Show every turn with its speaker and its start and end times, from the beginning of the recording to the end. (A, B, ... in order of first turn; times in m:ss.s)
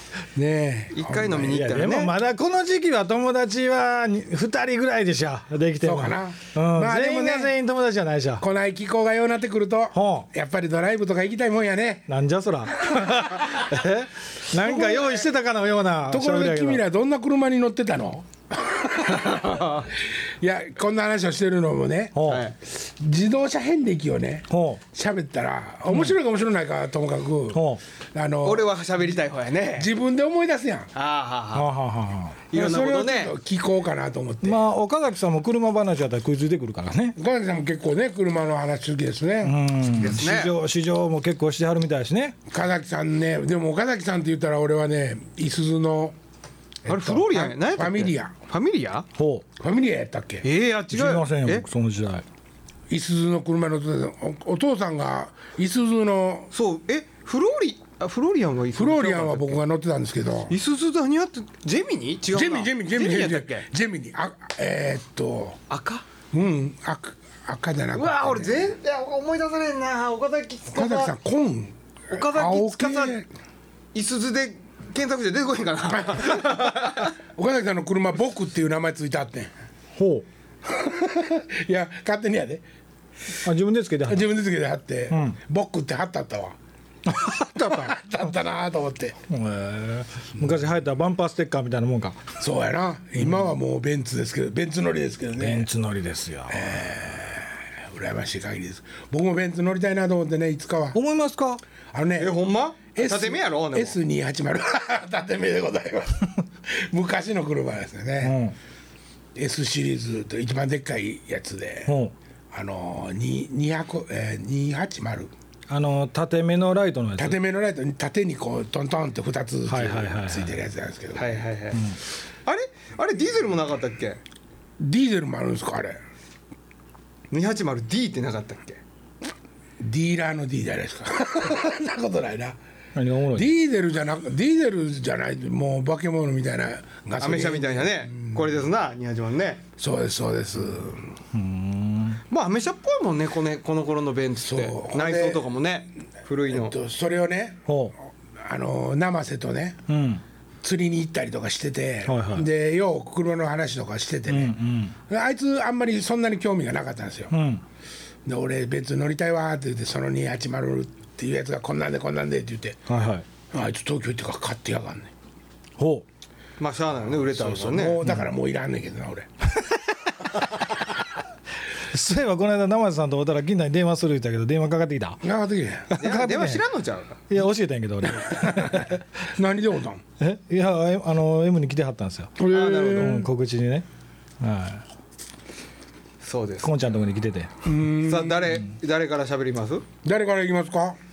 0:00.3-0:01.6 A
0:00.9-0:02.1 B
0:01.3-0:08.4 C
0:05.8-0:07.5 A
0:08.4-0:12.1 A
0:09.9-0:10.3 C
0:12.1-0:16.8 C
0:14.6-0:15.2 A
0:16.1-0:27.6 A
0:19.3-0:19.8 B
0:22.1-0:22.4 C
0:22.2-0:22.5 B
0:24.5-0:24.8 C
0:25.9-0:26.1 C
0:27.5-0:27.8 C
0:28.1-0:28.7 A
0:28.4-0:29.9 B
0:29.7-0:30.9 A
0:30.9-0:31.7 B
0:31.5-0:32.4 C
0:32.5-0:33.3 B
0:32.5-0:34.6 A
0:34.4-0:37.2 C
0:37.2-0:39.6 A
0:39.4-0:42.4 C
0:40.0-0:40.5 B
0:42.5-0:46.2 A
0:46.8-0:48.3 A
0:46.8-0:49.1 B
0:49.2-0:49.4 C
0:49.6-0:50.4 A
0:50.4-0:51.6 B
0:50.9-0:52.2 C
0:52.9-0:56.5 A
0:56.5-0:59.6 B
0:58.7-1:00.5 A
1:00.5-1:03.6 B
1:02.3-1:05.6 A
1:05.7-1:06.0 B
1:06.3-1:08.7 A
1:07.9-1:11.1 B
1:10.7-1:13.3 A
1:12.1-1:13.2 B
1:13.9-1:17.1 B
1:16.1-1:19.5 A
1:20.0-1:20.2 C
1:20.6-1:22.6 A
1:23.4-1:24.3 C
1:24.1-1:26.5 A
1:25.1-1:25.4 C
1:27.1-1:28.0 C
1:27.2-1:29.2 A
1:29.3-1:32.2 C
1:32.4-1:35.7 A
1:35.4-1:36.8 C
1:36.5-1:41.0 A
1:40.9-1:41.6 C
1:41.9-1:42.4 A
1:42.2-1:44.0 B
1:42.9-1:48.4 A
1:48.2-1:48.5 C
1:49.3-1:51.9 A
1:51.9-1:52.1 C
1:52.5-1:55.3 A
1:55.7-1:57.4 C
1:57.2-2:01.4 A
1:59.7-2:00.6 C
2:01.1-2:04.2 B
2:04.8-2:06.0 A
2:07.3-2:08.8 B
2:09.8-2:12.6 A
2:13.0-2:13.5 C
2:13.3-2:18.4 A
2:17.2-2:19.6 B
2:19.8-2:21.1 A
2:21.3-2:22.2 C
2:22.3-2:26.8 B
2:24.4-2:25.5 A
2:26.5-2:27.6 A
2:27.7-2:27.9 C
2:28.4-2:29.8 A
2:29.9-2:30.2 C
2:30.6-2:34.5 A
2:32.0-2:32.5 C
2:34.3-2:34.9 C
2:35.1-2:37.3 A
2:37.3-2:37.6 C
2:38.2-2:42.8 A
2:42.9-2:43.2 C
2:43.5-2:45.1 A
2:45.8-2:46.0 C
2:46.6-2:48.0 B
2:47.2-2:49.3 A
2:51.9-2:55.2 C
2:55.2-2:55.9 A
2:55.9-2:56.6 C
2:56.0-2:57.2 B
2:57.3-2:59.0 C
2:58.1-3:00.0 A
3:00.2-3:03.8 C
3:02.4-3:03.3 A
3:02.4-3:03.2 B
3:04.4-3:04.8 C
3:06.2-3:06.7 B
3:06.6-3:07.5 C
3:07.6-3:08.5 A
3:07.9-3:09.8 B
3:10.0-3:11.0 A